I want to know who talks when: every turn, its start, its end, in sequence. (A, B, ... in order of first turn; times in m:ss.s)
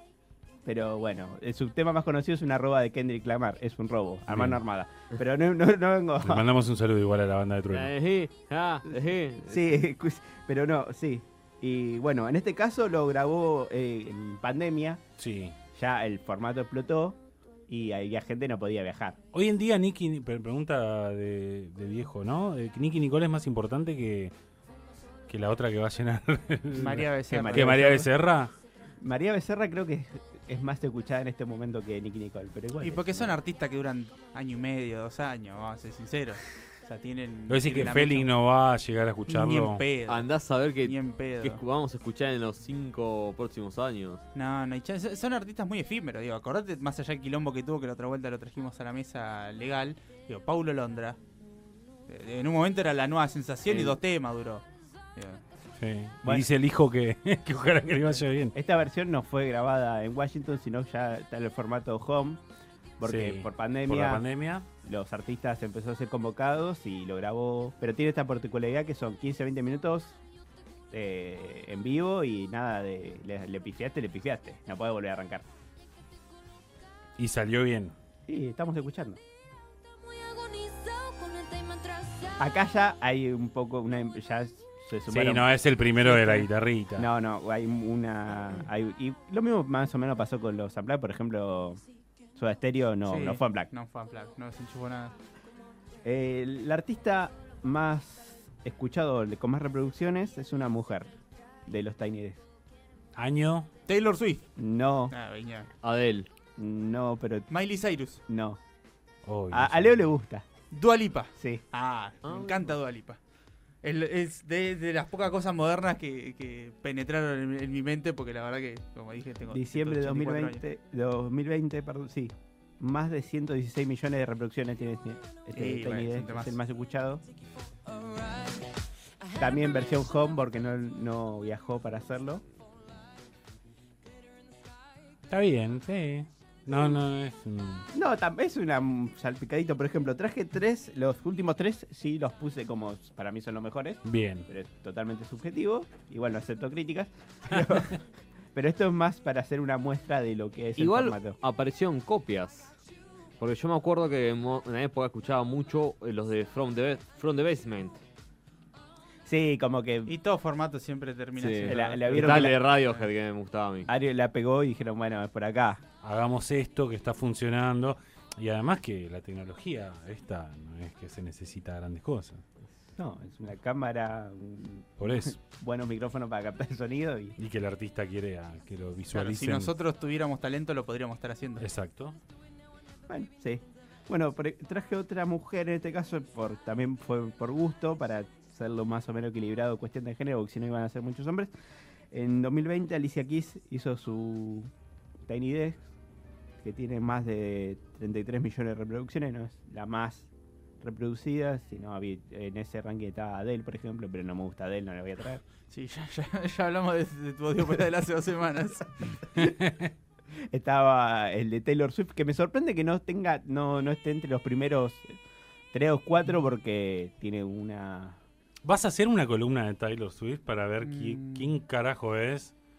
0:00.6-0:06.5 A
0:04.3-0:04.6 B
0:06.2-0:07.9 B
0:07.7-0:09.6 C
0:09.5-0:15.0 A
0:15.2-0:15.6 B
0:15.8-0:19.2 A
0:19.3-0:24.4 B
0:25.3-0:28.5 B
0:26.8-0:27.9 D
0:27.3-0:28.1 A
0:29.0-0:33.4 A
0:32.8-0:38.3 D
0:37.5-0:39.8 B
0:39.3-0:41.6 D
0:40.1-0:44.2 C
0:44.3-0:51.2 D
0:52.1-0:54.6 D
0:53.7-0:54.0 A
0:55.2-0:55.4 D
0:55.8-0:58.5 B
0:56.2-0:56.5 A
0:58.5-1:02.4 A
1:03.0-1:04.3 A
1:03.0-1:04.7 B
1:04.8-1:10.2 A
1:10.9-1:15.5 A
1:17.2-1:18.0 B
1:18.3-1:19.2 A
1:20.1-1:22.2 E
1:22.4-1:25.5 A
1:25.1-1:27.1 B
1:26.0-1:26.5 D
1:27.0-1:31.8 A
1:32.4-1:33.7 A
1:33.0-1:35.2 D
1:36.0-1:41.1 A
1:41.7-1:42.4 A
1:43.2-1:43.7 B
1:43.9-1:44.4 D
1:44.6-1:45.2 A
1:45.1-1:45.7 D
1:45.8-1:46.3 C
1:46.6-1:47.5 A
1:47.5-1:48.2 D
1:48.3-1:48.6 A
1:49.2-1:50.1 B
1:49.5-1:50.4 A
1:50.7-1:53.2 D
1:52.2-1:52.7 C
1:53.8-2:00.6 D
1:59.5-2:07.2 A
2:05.5-2:06.6 D
2:09.4-2:12.4 A
2:15.3-2:17.9 B
2:17.9-2:28.0 A
2:24.0-2:24.5 B
2:28.5-2:31.4 A
2:30.8-2:32.7 C
2:33.4-2:38.0 C
2:39.3-2:40.1 A
2:40.1-2:43.1 D
2:41.4-2:43.9 C
2:41.7-2:42.6 A
2:43.9-2:45.8 A
2:46.0-2:52.4 B
2:53.0-2:57.4 A
2:55.0-2:55.4 B
2:57.4-2:59.7 B
2:59.1-3:01.6 D
3:01.6-3:02.2 B
3:03.1-3:11.5 A
3:12.1-3:14.7 A
3:15.3-3:15.8 A
3:16.6-3:20.3 A
3:20.8-3:25.4 A
3:25.7-3:29.2 D
3:29.4-3:29.9 B
3:30.5-3:35.2 A
3:35.7-3:38.2 A
3:38.6-3:42.5 B
3:40.8-3:41.5 D